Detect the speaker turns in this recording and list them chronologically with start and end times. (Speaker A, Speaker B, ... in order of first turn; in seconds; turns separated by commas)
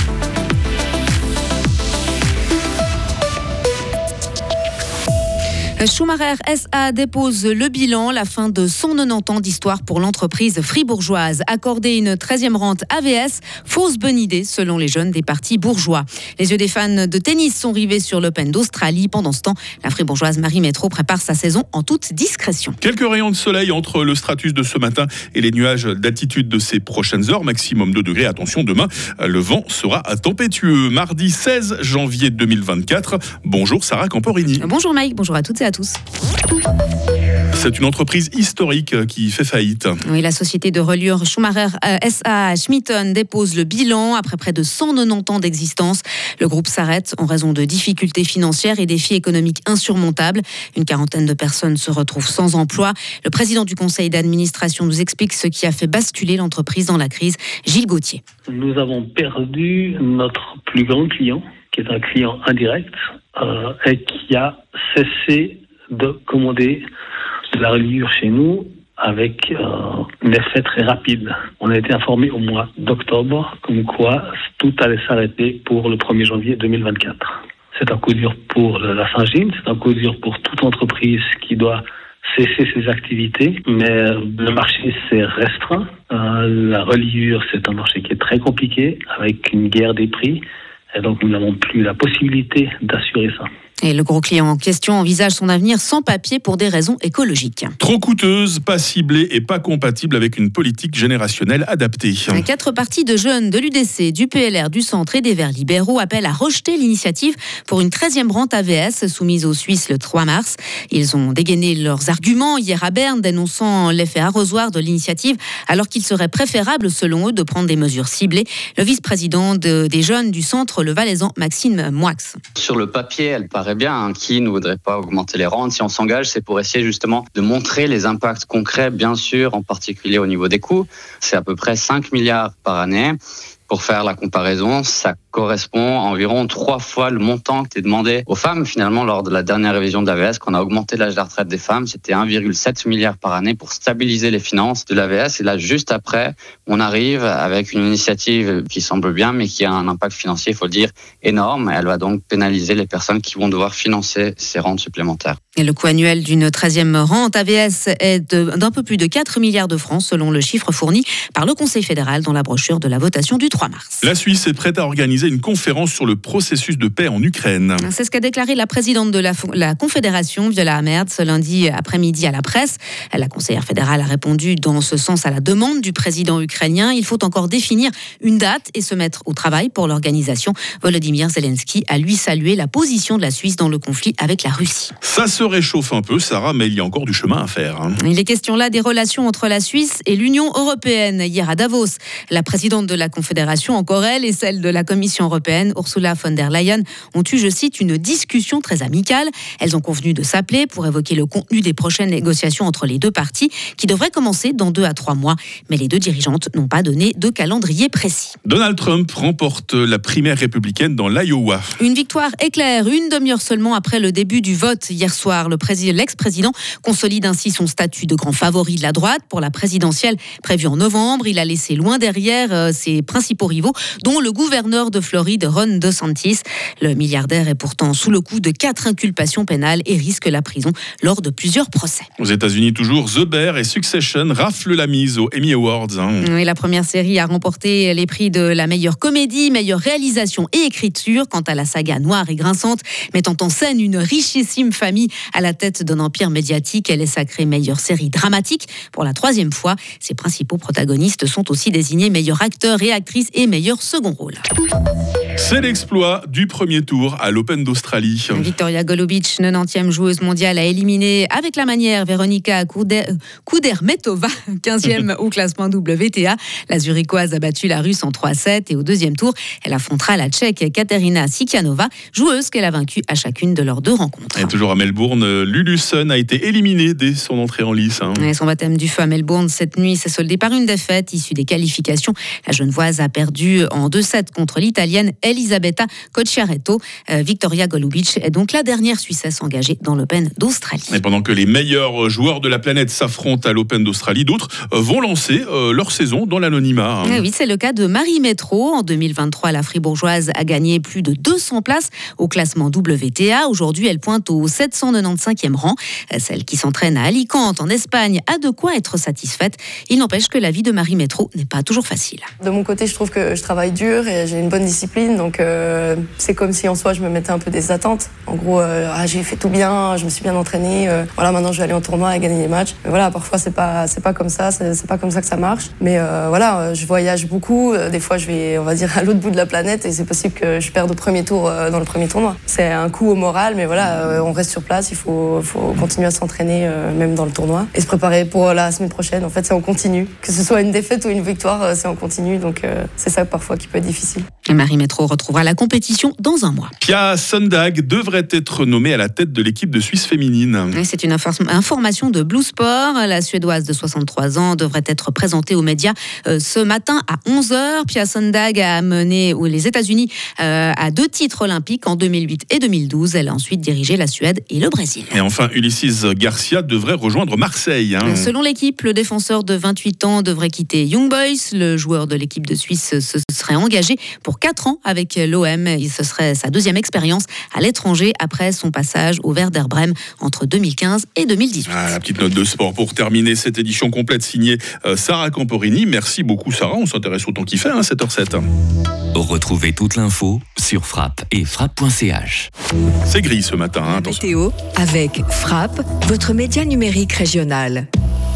Speaker A: 5.8-22.8, Speaker B: 22.8-34.6, Speaker A: 34.6-36.0, Speaker B: 37.5-40.0, Speaker A: 40.0-58.2, Speaker C: 58.5-66.8, Speaker C: 67.5-90.4, Speaker C: 90.9-93.5, Speaker A: 93.8-97.7, Speaker B: 97.8-102.5, Speaker A: 102.3-122.4, Speaker D: 122.6-155.4, Speaker A: 155.6-164.1, Speaker B: 164.0-167.9, Speaker A: 167.8-184.9, Speaker B: 185.0-188.0, Speaker A: 188.0-208.4, Speaker B: 208.4-211.8, Speaker A: 211.8-232.1, Speaker B: 232.2-236.3, Speaker A: 236.2-254.4, Speaker B: 255.4-258.5, Speaker A: 258.3-274.5, Speaker B: 274.4-278.2, Speaker A: 278.2-291.0, Speaker B: 290.9-297.2, Speaker A: 297.1-312.3, Speaker E: 312.4-344.3, Speaker A: 344.5-346.7, Speaker B: 346.8-350.8, Speaker A: 350.8-365.2, Speaker B: 365.1-368.3, Speaker A: 368.0-381.9, Speaker B: 381.7-388.4, Speaker F: 389.1-392.5, Speaker B: 393.1-394.2, Speaker G: 393.9-397.9